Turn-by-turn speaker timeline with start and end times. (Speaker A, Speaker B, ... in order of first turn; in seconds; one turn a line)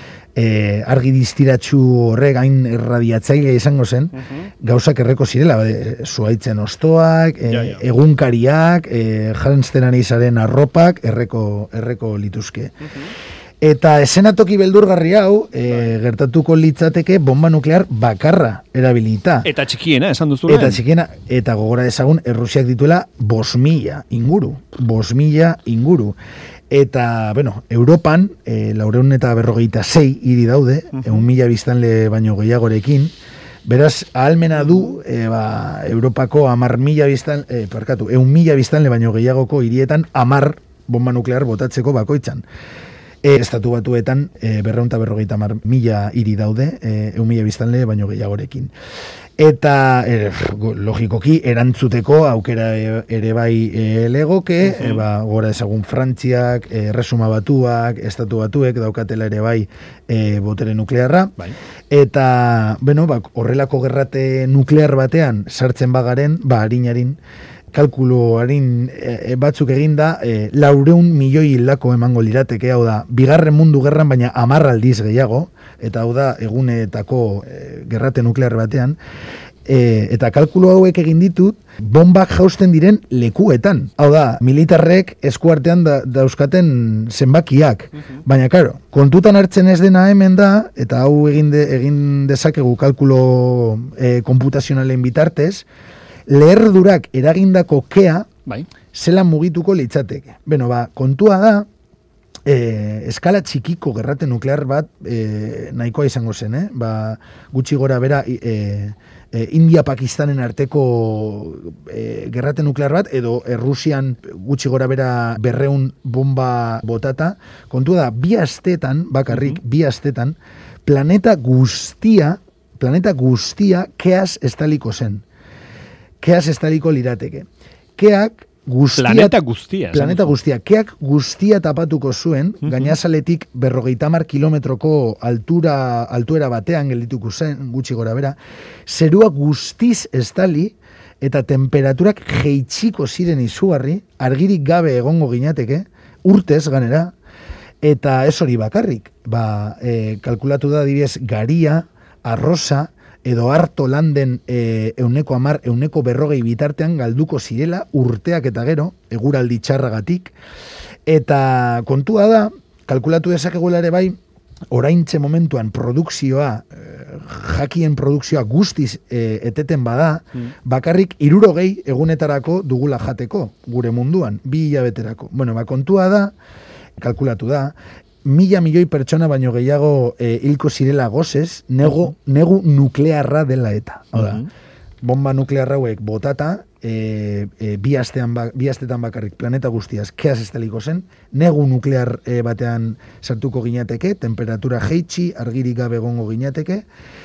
Speaker A: 0.3-12.8
Speaker B: 4.2-4.5
Speaker B: 7.5-7.8
Speaker A: 13.6-19.5
Speaker B: 19.4-20.8
Speaker A: 20.5-26.1
Speaker A: 26.7-33.1
Speaker A: 33.6-42.4
Speaker A: 43.2-48.7
Speaker A: 49.4-61.3
Speaker B: 54.6-55.0
Speaker A: 61.9-67.2
Speaker A: 67.7-79.0
Speaker A: 79.6-95.7
Speaker A: 96.3-98.3
Speaker A: 98.9-101.7
Speaker A: 102.5-125.2
Speaker A: 126.2-129.4
Speaker B: 129.0-130.3
Speaker A: 129.9-147.1
Speaker B: 132.6-132.9
Speaker A: 147.8-160.3
Speaker A: 161.1-164.2
Speaker A: 164.7-176.3
Speaker A: 177.0-184.4
Speaker B: 184.2-184.4
Speaker A: 185.0-196.8